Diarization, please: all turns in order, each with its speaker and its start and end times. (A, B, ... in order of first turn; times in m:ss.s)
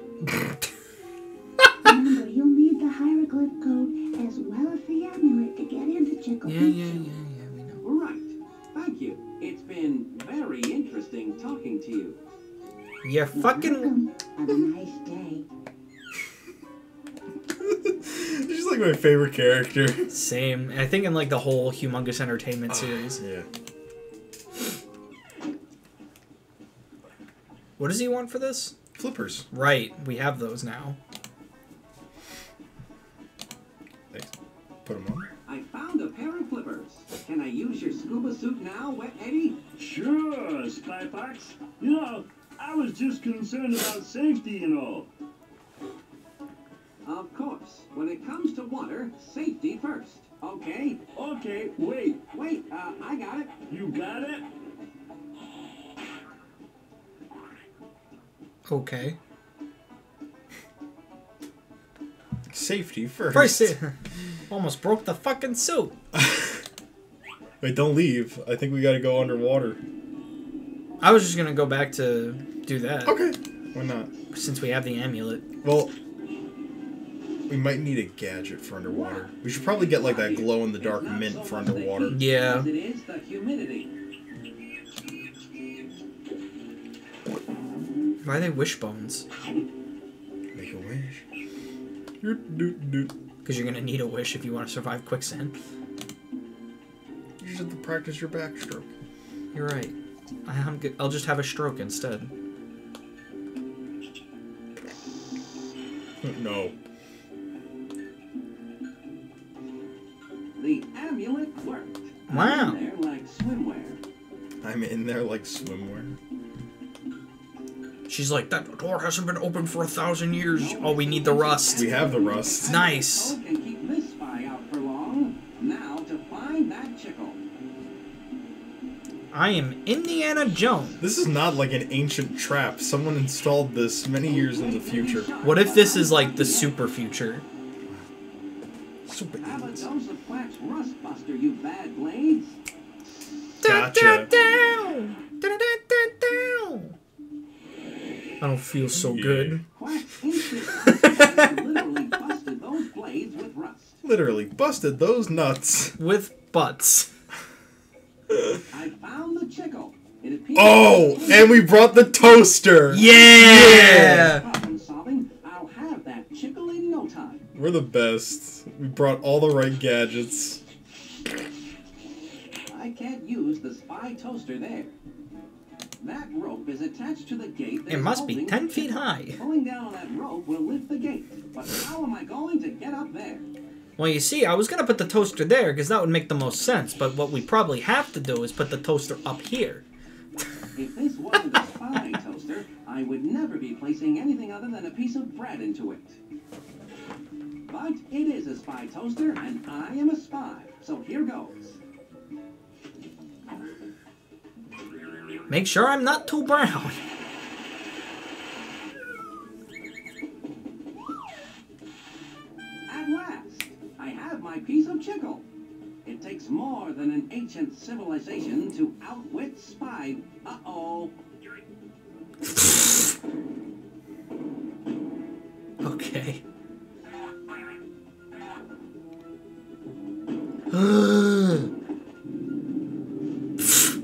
0:01.8-0:07.1 A
0:06.4-0:07.8 B
0:07.8-0:12.2 C
0:13.0-0:13.9 B
0:13.3-0:15.4 A
0:17.5-0:20.1 D
0:20.1-0:23.2 B
0:22.7-0:23.5 D
0:27.8-0:28.8 B
0:29.0-0:29.5 D
0:29.5-0:31.0 B
0:34.8-0:35.3 D
0:35.5-0:39.6 C
0:39.8-0:45.1 E
0:47.0-0:51.0 C
0:51.2-0:52.2 E
0:52.3-0:53.6 C
0:53.7-0:54.4 E
0:58.7-0:59.2 B
1:02.5-1:03.7 D
1:03.3-1:04.0 B
1:04.5-1:06.0 B
1:06.1-1:06.6 D
1:07.6-1:09.8 D
1:11.0-1:13.2 B
1:13.0-1:14.1 D
1:14.3-1:15.5 B
1:15.6-1:16.0 D
1:17.5-1:22.2 D
1:18.9-1:23.9 C
1:22.1-1:22.7 B
1:28.2-1:29.3 B
1:30.6-1:31.2 D
1:32.2-1:33.1 D
1:33.4-1:35.6 B
1:37.4-1:38.9 D
1:39.5-1:40.0 B
1:40.5-1:42.3 B
1:46.2-1:46.8 D
1:50.6-1:54.0 C
1:52.3-1:52.8 B
1:54.6-1:56.2 D
1:58.1-2:02.0 B
2:00.5-2:07.4 C
2:01.7-2:02.7 D
2:02.7-2:03.4 B
2:09.3-2:11.0 B
2:11.0-2:15.3 D
2:14.3-2:16.8 C
2:15.4-2:17.4 B
2:19.1-2:19.9 D
2:19.4-2:22.6 C
2:23.6-2:26.9 B
2:23.6-2:24.3 D
2:28.4-2:29.6 B
2:28.9-2:29.6 D
2:29.7-2:34.0 C
2:31.1-2:31.4 B
2:34.0-2:36.0 D
2:36.0-2:37.1 B
2:38.7-2:41.7 C
2:40.5-2:44.3 D
2:42.9-2:44.5 B
2:43.0-2:47.4 C
2:47.5-2:50.6 D
2:52.7-2:55.0 C
2:56.0-3:03.5 C
2:57.9-2:59.4 B
3:04.0-3:09.9 B
3:10.8-3:16.2 C
3:17.7-3:21.8 C
3:25.5-3:27.0 B
3:32.9-3:35.5 C
3:36.0-3:41.2 C
3:45.8-3:46.4 B
3:50.7-3:51.7 B